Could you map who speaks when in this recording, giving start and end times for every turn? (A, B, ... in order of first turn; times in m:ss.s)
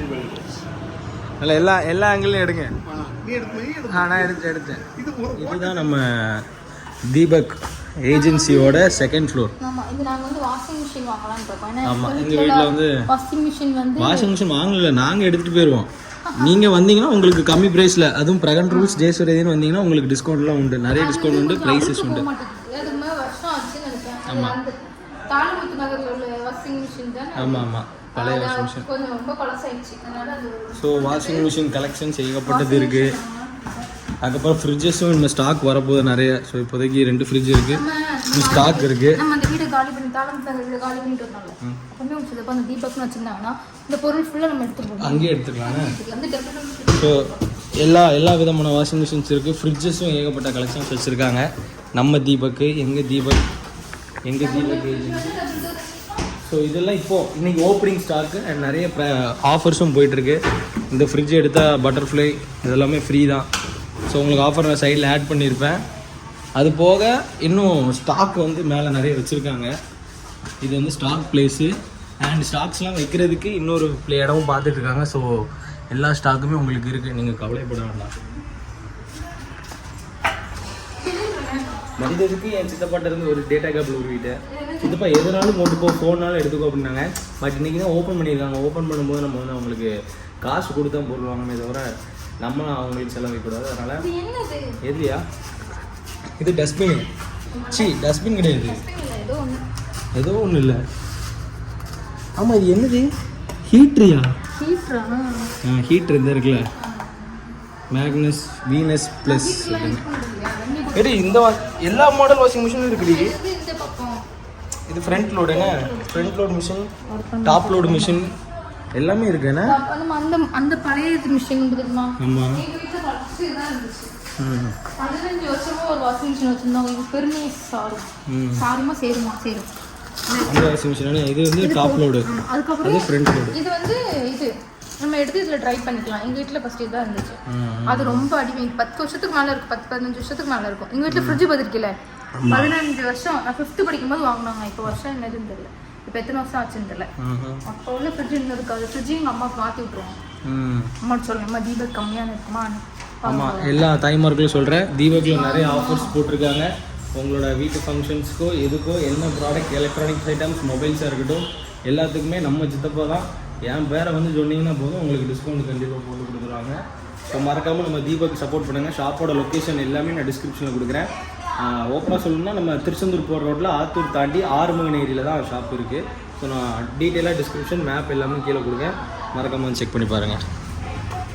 0:01.4-0:02.7 A
0:02.8-0:04.4 B
0:03.9-0:06.5 A
0:04.9-0:05.9 B
0:07.1-0:09.5 A
0:08.1-0:14.3 C
0:11.8-0:13.0 A
0:14.0-0:22.3 A
0:16.3-0:16.6 C
0:18.7-0:19.0 C
0:20.9-0:24.8 C
0:24.3-0:24.6 A
0:25.3-0:31.5 C
0:27.3-0:28.9 A
0:30.8-0:33.2 A
0:32.4-0:33.9 C
0:34.2-0:39.2 A
0:37.7-0:47.4 C
0:45.0-0:45.9 A
0:46.9-0:53.4 A
0:54.3-0:55.3 A
0:54.4-0:56.2 C
0:56.4-1:00.4 A
1:00.9-1:03.5 A
1:04.1-1:05.8 A
1:06.6-1:09.7 A
1:10.6-1:18.2 A
1:21.0-1:21.8 C
1:22.0-1:29.9 A
1:24.4-1:25.1 C
1:30.4-1:31.8 A
1:32.4-1:34.0 A
1:34.0-1:34.7 C
1:34.8-1:35.2 A
1:36.4-1:37.1 A
1:37.5-1:39.6 C
1:37.7-1:38.8 A
1:40.1-1:40.8 A
1:42.4-1:43.1 A
1:43.7-1:44.3 A
1:44.5-1:45.5 C
1:45.6-1:46.7 A
1:46.8-1:47.5 C
1:47.9-1:50.0 A
1:49.2-1:51.5 C
1:50.9-1:53.4 A
1:52.9-1:54.2 C
1:54.9-1:56.9 A
1:55.1-1:56.4 C
1:57.0-1:58.2 C
1:57.4-1:58.3 A
1:58.9-1:59.8 A
1:59.6-2:04.1 C
2:02.2-2:02.6 A
2:04.4-2:04.8 A
2:05.0-2:09.7 C
2:08.3-2:08.6 A
2:10.3-2:10.7 C
2:10.4-2:12.3 A
2:11.6-2:22.0 C
2:12.8-2:13.6 A
2:17.5-2:18.3 A
2:21.1-2:21.4 A
2:22.4-2:22.7 A
2:22.5-2:27.1 C
2:27.2-2:27.6 A
2:27.6-2:30.2 C
2:30.4-2:30.9 A
2:31.0-2:33.8 C
2:33.2-3:00.4 A
2:35.1-2:36.2 C